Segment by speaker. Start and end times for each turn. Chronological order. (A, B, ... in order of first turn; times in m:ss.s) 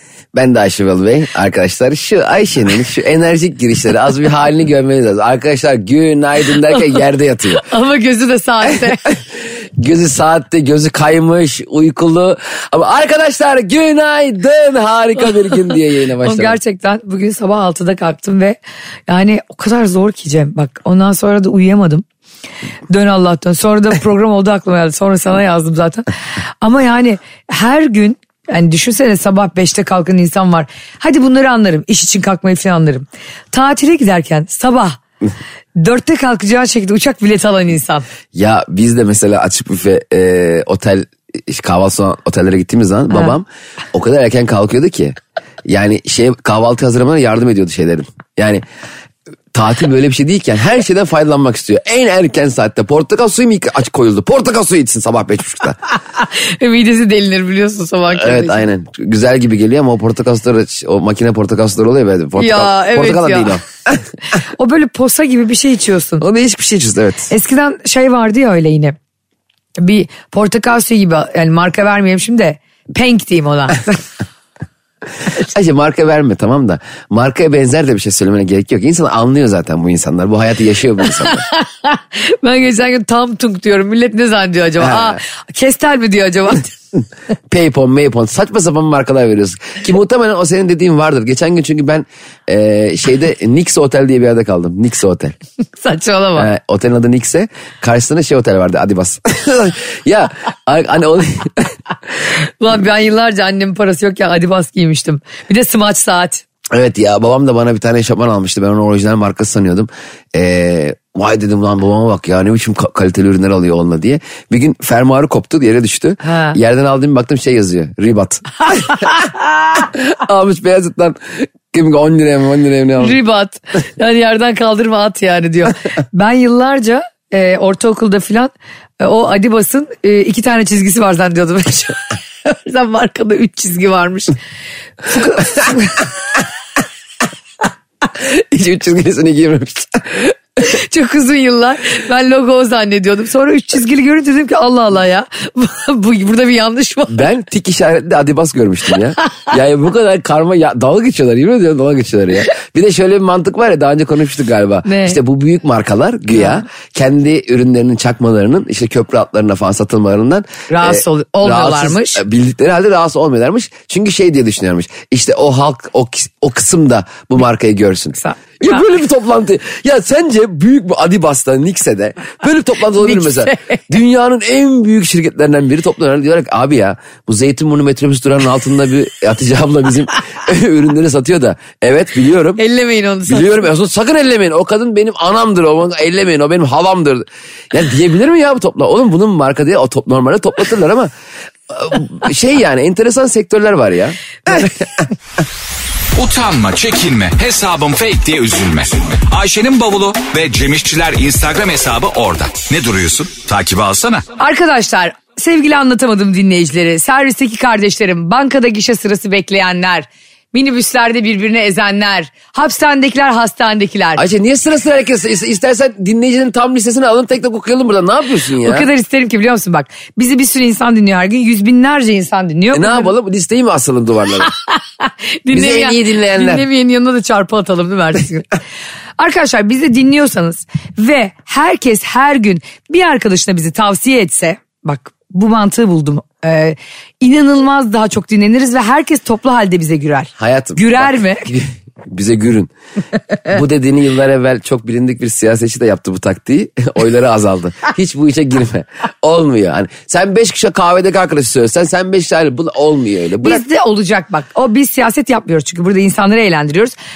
0:00.3-0:07.6 A
0:06.7-0:07.0 B
0:07.6-0:09.2 B
0:09.8-0:16.6 A
0:16.2-0:22.0 B
0:22.9-0:26.1 B
0:26.6-0:35.0 B
0:35.8-0:38.0 B
0:38.3-0:48.6 A
0:49.5-0:55.8 A
0:56.1-0:58.6 B
0:58.1-1:04.0 A
1:02.4-1:03.6 B
1:04.3-1:06.2 B
1:06.2-1:07.3 A
1:07.3-1:09.0 B
1:09.8-1:13.9 B
1:15.3-1:21.4 A
1:21.2-1:26.7 B
1:24.8-1:25.2 A
1:27.5-1:35.4 A
1:35.8-1:36.5 B
1:36.4-1:41.7 A
1:42.4-1:46.4 B
1:46.7-2:03.2 A
1:56.2-1:56.6 B
2:03.0-2:14.4 B
2:15.1-2:16.0 B
2:18.1-2:20.4 A
2:20.6-2:27.3 B
2:27.1-3:02.6 A
2:34.8-2:35.2 B
2:36.3-2:36.6 B
2:40.7-2:42.2 B
2:48.2-2:48.8 B
2:53.0-2:53.8 B
3:02.6-3:03.7 B
3:03.3-3:11.1 A
3:11.7-3:15.1 A
3:16.1-3:24.2 C
3:24.4-3:34.2 B
3:34.2-3:38.9 A
3:38.6-3:43.1 B
3:42.7-3:44.5 A
3:44.4-3:48.5 B
3:45.5-3:46.6 A
3:49.2-4:01.5 B
4:00.4-4:02.7 A
4:03.4-4:13.6 A
4:13.4-4:16.9 B